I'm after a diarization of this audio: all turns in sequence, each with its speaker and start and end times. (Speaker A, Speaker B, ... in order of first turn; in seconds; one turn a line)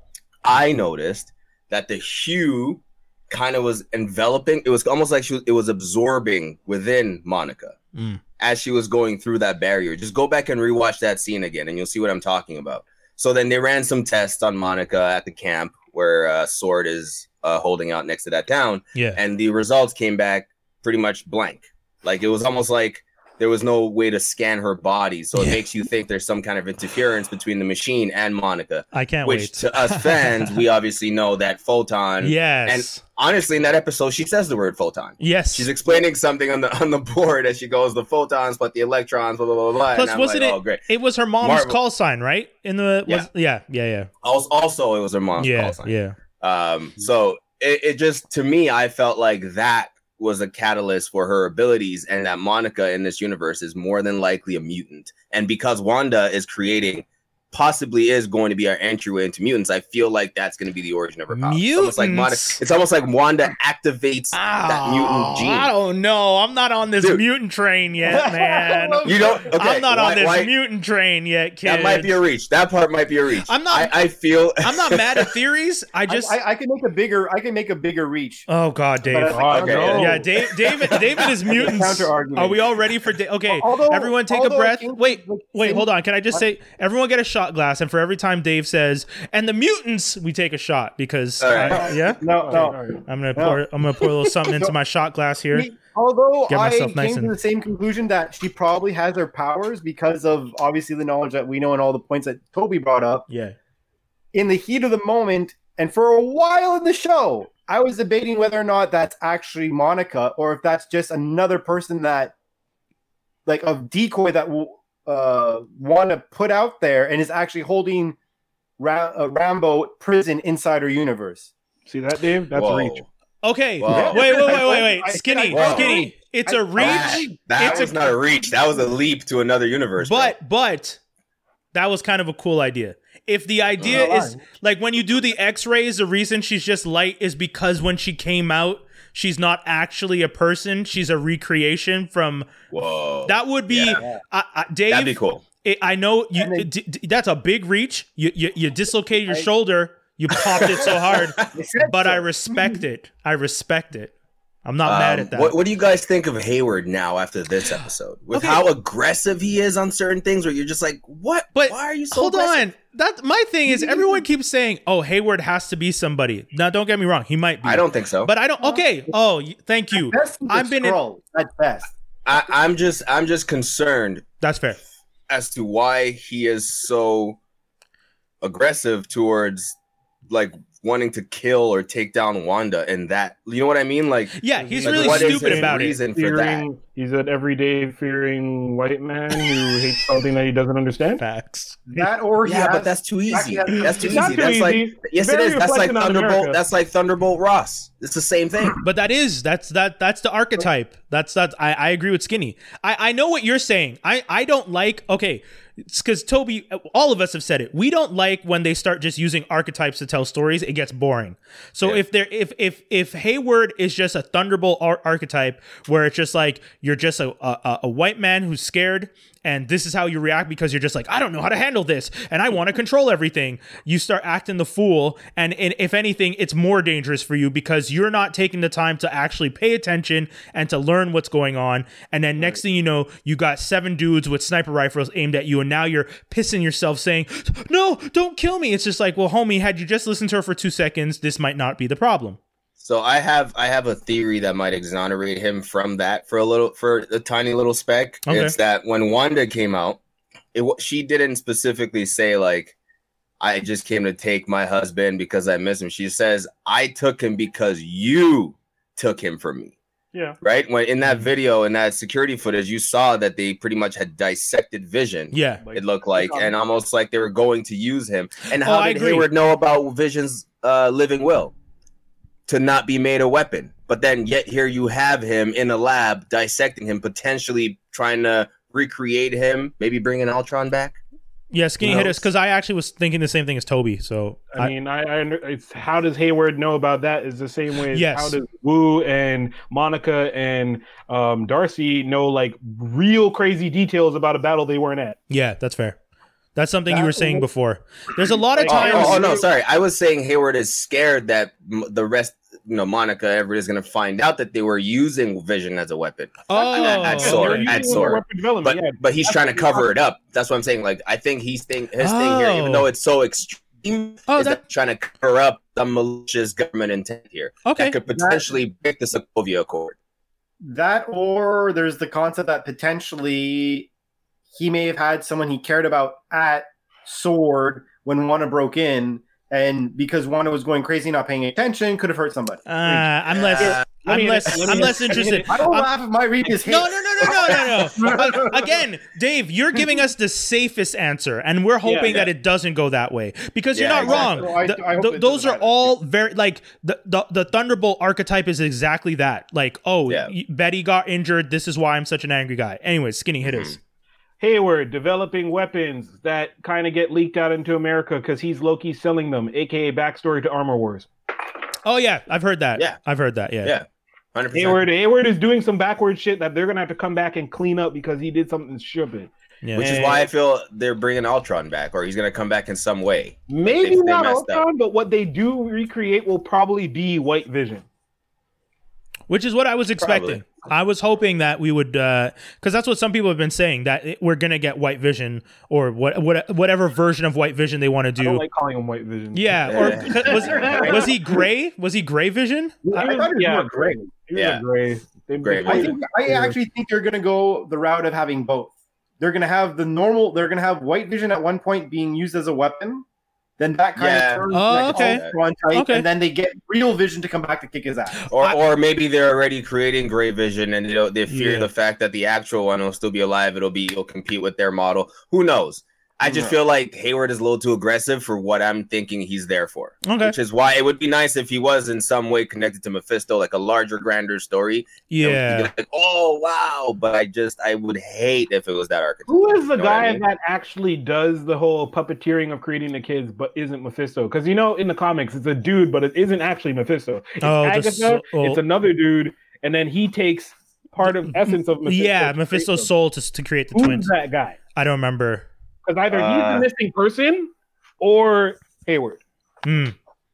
Speaker A: 0.4-7.8
Speaker B: 7.9-8.2
Speaker A: 8.4-40.8
Speaker B: 25.3-25.6
Speaker B: 28.9-30.6
Speaker B: 32.2-33.0
Speaker B: 35.2-35.7
Speaker B: 39.9-44.1
Speaker A: 41.4-41.8
Speaker A: 44.2-65.7
Speaker B: 45.4-46.1
Speaker B: 61.3-62.6
Speaker B: 64.3-72.1
Speaker C: 68.0-69.5
Speaker A: 69.0-70.5
Speaker A: 71.6-75.3
Speaker B: 73.5-74.0
Speaker B: 74.6-76.3
Speaker C: 76.1-78.5
Speaker B: 78.5-95.7
Speaker C: 79.1-82.6
Speaker D: 79.3-80.2
Speaker A: 79.5-80.2
Speaker C: 83.5-86.4
Speaker A: 91.4-92.2
Speaker C: 91.5-92.8
Speaker D: 92.3-93.0
Speaker C: 93.3-93.6
Speaker C: 94.4-94.7
Speaker C: 95.5-103.3
Speaker B: 96.5-97.3
Speaker B: 103.3-103.5
Speaker C: 104.3-112.3
Speaker C: 113.5-118.2
Speaker C: 118.8-121.5
Speaker D: 121.9-123.0
Speaker A: 122.5-123.0
Speaker B: 123.4-128.0
Speaker A: 123.8-124.6
Speaker C: 123.9-127.7
Speaker A: 125.5-126.1
Speaker A: 126.8-130.3
Speaker B: 130.0-131.0
Speaker B: 131.7-142.5
Speaker A: 133.8-134.1
Speaker C: 133.9-134.4
Speaker A: 142.7-144.0
Speaker B: 143.2-154.1
Speaker A: 144.9-145.4
Speaker C: 146.3-146.7
Speaker A: 150.4-151.5
Speaker C: 150.8-152.8
Speaker B: 154.6-155.6
Speaker A: 154.8-162.6
Speaker B: 158.3-158.6
Speaker B: 161.5-171.0
Speaker C: 163.7-164.2
Speaker A: 167.6-168.3
Speaker C: 169.9-171.9
Speaker A: 172.2-174.2
Speaker B: 174.4-174.8
Speaker A: 175.3-177.4
Speaker A: 178.4-179.8
Speaker A: 180.3-186.6
Speaker B: 184.4-186.0
Speaker D: 184.6-191.2
Speaker B: 191.2-191.9
Speaker C: 191.9-194.5
Speaker A: 192.4-198.8
Speaker D: 193.9-196.6
Speaker B: 198.8-242.4
Speaker A: 242.8-250.0
Speaker B: 248.2-248.5
Speaker A: 250.5-252.7
Speaker A: 253.4-259.8
Speaker D: 260.1-260.4
Speaker A: 260.4-271.5
Speaker B: 265.3-265.6
Speaker D: 265.6-266.5
Speaker B: 268.6-269.3
Speaker A: 272.5-281.0
Speaker B: 281.5-284.7
Speaker D: 281.8-282.2
Speaker A: 281.8-282.1
Speaker D: 284.5-295.2
Speaker B: 287.9-288.4
Speaker B: 295.3-296.0
Speaker B: 296.6-299.3
Speaker D: 296.9-297.4
Speaker D: 298.6-299.4
Speaker A: 298.6-319.9
Speaker B: 306.5-308.0
Speaker D: 306.5-309.9
Speaker B: 312.0-312.9
Speaker B: 314.3-314.6
Speaker B: 317.6-317.9
Speaker C: 318.1-318.4
Speaker C: 320.6-323.9
Speaker C: 324.5-332.6
Speaker B: 332.6-335.9
Speaker D: 332.8-335.5
Speaker A: 333.6-333.9
Speaker C: 334.7-338.8
Speaker B: 336.4-353.8
Speaker D: 341.8-342.2
Speaker A: 342.0-342.3
Speaker A: 343.7-344.5
Speaker C: 344.0-345.9
Speaker A: 350.1-350.3
Speaker A: 353.4-353.8
Speaker D: 354.4-361.1
Speaker B: 361.8-363.7
Speaker A: 363.6-364.9
Speaker D: 364.5-370.3
Speaker B: 369.6-370.0
Speaker A: 369.8-374.6
Speaker D: 373.5-377.8
Speaker B: 379.3-388.4
Speaker A: 380.0-380.4
Speaker D: 388.2-391.4
Speaker B: 389.3-393.1
Speaker A: 389.7-390.5
Speaker C: 390.2-391.1
Speaker D: 392.9-396.6
Speaker C: 392.9-394.0
Speaker A: 394.3-394.6
Speaker A: 395.4-395.9
Speaker C: 395.6-403.0
Speaker C: 403.6-408.2
Speaker A: 403.9-405.4
Speaker B: 404.5-406.1
Speaker B: 408.2-408.6
Speaker A: 408.3-430.2
Speaker B: 411.3-411.7
Speaker C: 416.3-416.5
Speaker B: 420.0-420.4
Speaker B: 425.1-425.7
Speaker D: 429.3-442.9
Speaker B: 437.4-438.6
Speaker B: 441.0-444.1
Speaker D: 443.7-444.6
Speaker B: 444.7-445.5
Speaker D: 445.8-449.2
Speaker A: 446.1-446.7
Speaker B: 449.6-449.9